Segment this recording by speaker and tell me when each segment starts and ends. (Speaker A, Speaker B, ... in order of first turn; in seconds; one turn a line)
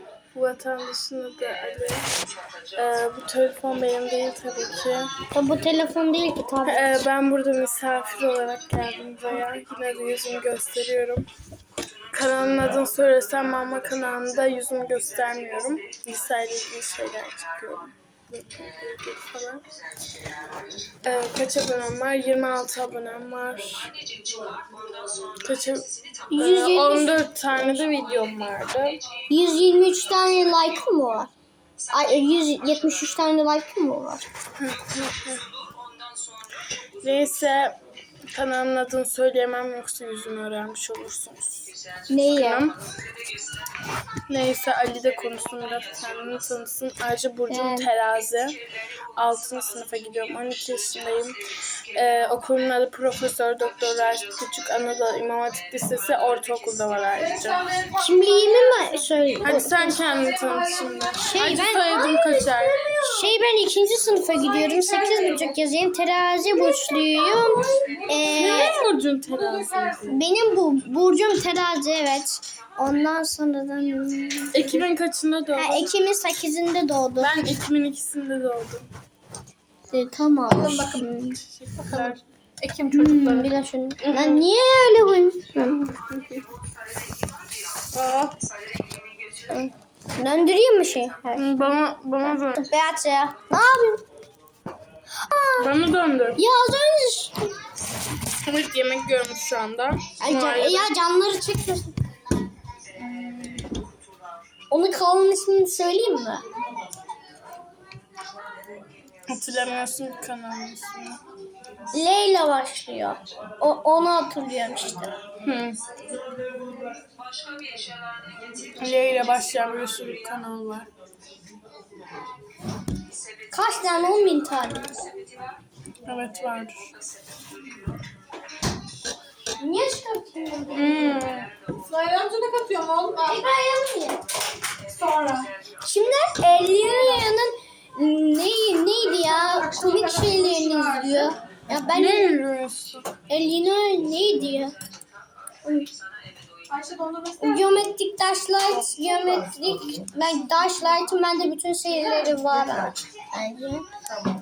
Speaker A: 0.3-2.1
Speaker A: 2.8-5.1
Speaker B: 5.3-7.0
Speaker A: 6.6-11.3
Speaker A: 12.1-19.6
Speaker A: 21.0-23.9
Speaker A: 25.4-29.0
Speaker B: 26.3-27.9
Speaker B: 29.3-31.3
Speaker B: 31.9-34.3
Speaker A: 34.6-35.4
Speaker A: 37.0-37.8
Speaker A: 38.3-42.8
Speaker B: 42.1-42.7
Speaker A: 44.3-48.6
Speaker B: 47.5-47.9
Speaker A: 49.2-51.4
Speaker A: 51.9-57.7
Speaker C: 57.2-58.8
Speaker B: 57.9-60.0
Speaker A: 59.4-62.8
Speaker C: 60.0-61.1
Speaker B: 61.2-68.8
Speaker C: 62.7-63.2
Speaker C: 64.5-65.5
Speaker C: 67.0-68.7
Speaker A: 68.3-70.1
Speaker C: 69.3-70.1
Speaker B: 70.0-74.8
Speaker A: 74.5-75.9
Speaker B: 75.6-77.4
Speaker A: 77.2-78.9
Speaker B: 79.9-81.4
Speaker C: 80.5-81.2
Speaker A: 81.2-82.2
Speaker C: 81.8-83.5
Speaker B: 82.9-86.4
Speaker A: 84.0-84.5
Speaker A: 87.9-88.4
Speaker B: 89.4-91.6
Speaker A: 91.4-92.6
Speaker B: 92.2-94.0
Speaker B: 95.1-95.8
Speaker A: 95.6-96.4
Speaker B: 96.3-97.5
Speaker A: 98.4-100.9
Speaker B: 100.2-101.9
Speaker A: 103.0-103.6
Speaker B: 104.7-106.4
Speaker A: 109.3-111.2
Speaker B: 111.9-115.1
Speaker A: 115.4-115.8
Speaker A: 118.8-120.9
Speaker B: 123.5-125.2
Speaker A: 126.0-126.9
Speaker B: 129.6-131.2
Speaker A: 130.7-131.5
Speaker C: 131.8-133.4
Speaker B: 133.2-134.2
Speaker C: 134.9-135.5
Speaker B: 135.8-142.3
Speaker C: 139.1-141.4
Speaker A: 141.9-143.1
Speaker B: 143.3-144.7
Speaker B: 145.6-145.9
Speaker C: 146.7-147.8
Speaker B: 147.4-153.8